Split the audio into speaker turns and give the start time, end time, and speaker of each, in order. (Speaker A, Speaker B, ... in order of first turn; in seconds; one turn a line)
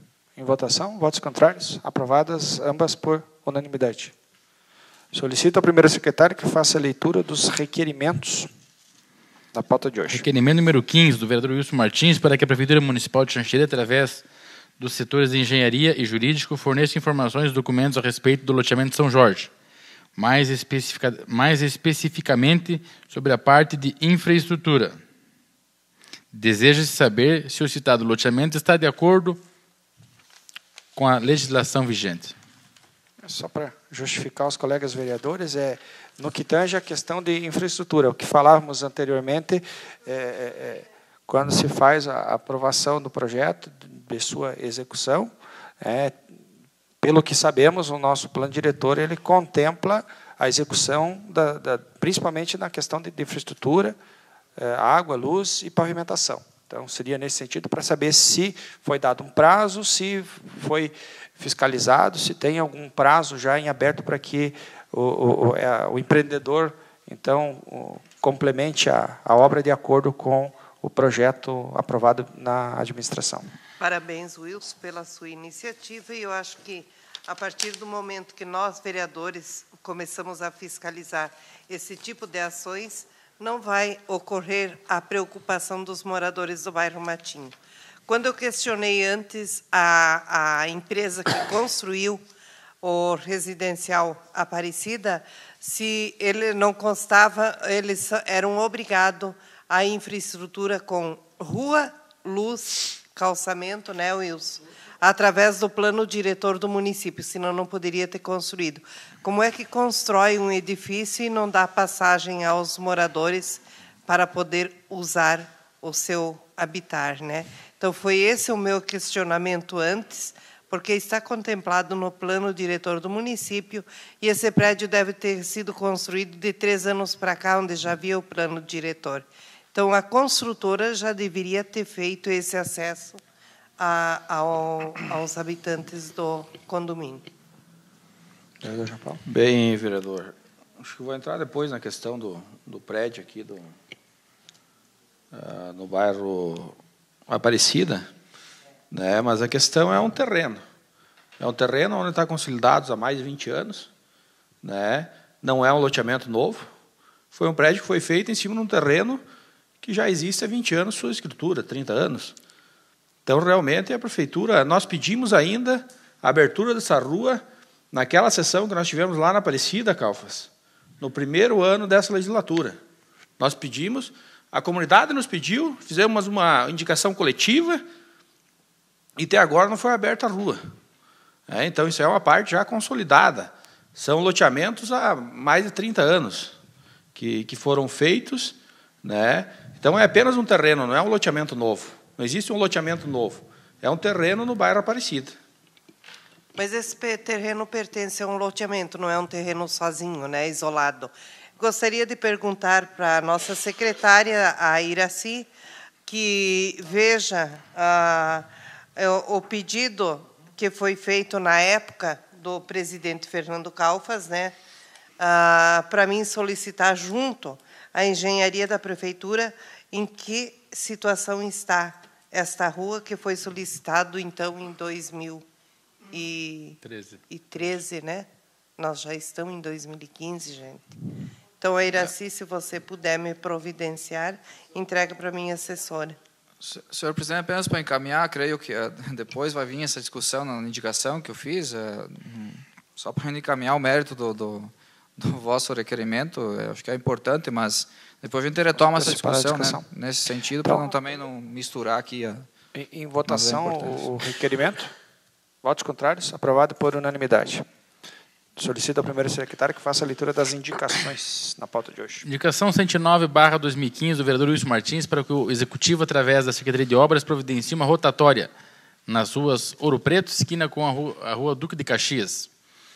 Speaker A: 0.4-4.1
Speaker A: 5.1-8.5
Speaker A: 9.5-10.2
Speaker B: 10.1-14.2
Speaker B: 14.8-19.5
Speaker B: 20.2-25.0
Speaker B: 26.3-29.4
Speaker B: 30.9-32.4
Speaker A: 33.2-46.2
Speaker A: 47.0-54.0
Speaker A: 54.6-73.5
Speaker C: 73.8-92.2
Speaker C: 92.8-133.2
Speaker C: 133.8-137.3
Speaker A: 138.6-139.2
Speaker D: 139.2-143.8
Speaker D: 145.3-148.1
Speaker D: 148.9-150.6
Speaker D: 151.4-153.9
Speaker D: 154.6-156.7
Speaker D: 157.3-159.2
Speaker D: 159.8-162.3
Speaker D: 163.3-172.8
Speaker D: 173.4-177.8
Speaker D: 179.2-180.6
Speaker D: 181.5-186.6
Speaker D: 187.2-195.4
Speaker C: 196.6-205.5
Speaker C: 206.1-214.6
Speaker C: 215.2-225.4
Speaker C: 226.1-230.9
Speaker B: 226.8-227.2
Speaker C: 231.6-236.2
Speaker E: 236.6-252.5
Speaker A: 248.8-249.8
Speaker A: 252.7-254.9
Speaker E: 253.4-254.0
Speaker A: 255.6-257.6
Speaker A: 258.6-262.2
Speaker B: 262.2-268.5
Speaker B: 269.1-272.5